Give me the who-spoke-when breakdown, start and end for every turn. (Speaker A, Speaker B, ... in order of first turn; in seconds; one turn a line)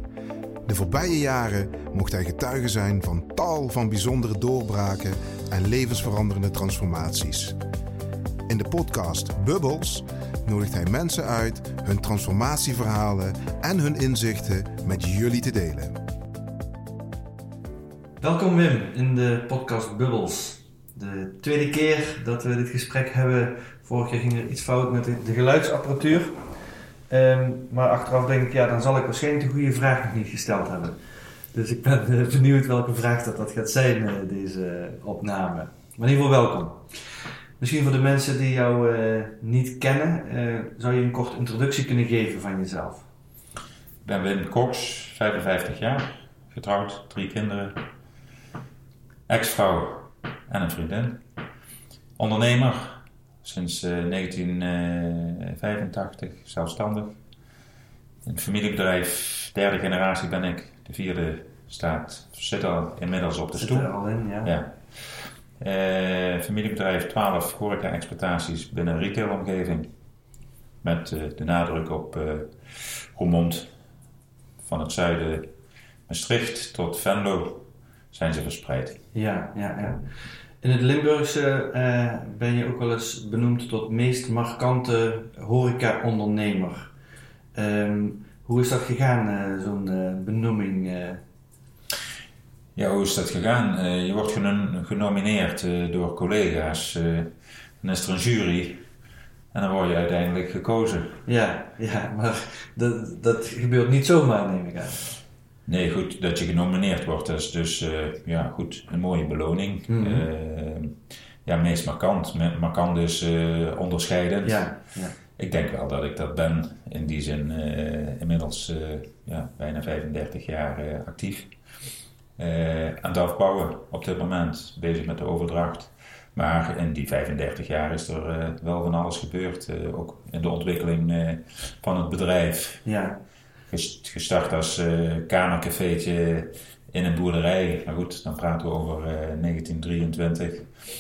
Speaker A: 0.7-7.6
Speaker A: 8.5-16.0
Speaker B: 18.2-26.4
Speaker B: 27.1-31.0
Speaker B: 31.5-36.9
Speaker B: 37.6-43.1
Speaker C: 44.0-47.8
Speaker C: 49.3-51.2
Speaker C: 52.2-57.2
Speaker C: 58.2-63.9
Speaker B: 63.5-64.5
Speaker C: 64.4-69.9
Speaker C: 70.8-73.7
Speaker C: 74.6-75.5
Speaker C: 76.1-79.0
Speaker B: 79.1-80.0
Speaker B: 80.6-86.9
Speaker B: 87.5-91.2
Speaker C: 92.8-97.3
Speaker C: 97.8-98.8
Speaker C: 99.5-101.2
Speaker B: 101.3-105.1
Speaker C: 105.7-110.9
Speaker B: 109.9-110.2
Speaker C: 111.5-114.7
Speaker B: 114.4-115.1
Speaker C: 115.4-121.5
Speaker C: 122.4-132.8
Speaker B: 132.8-133.2
Speaker C: 133.7-140.7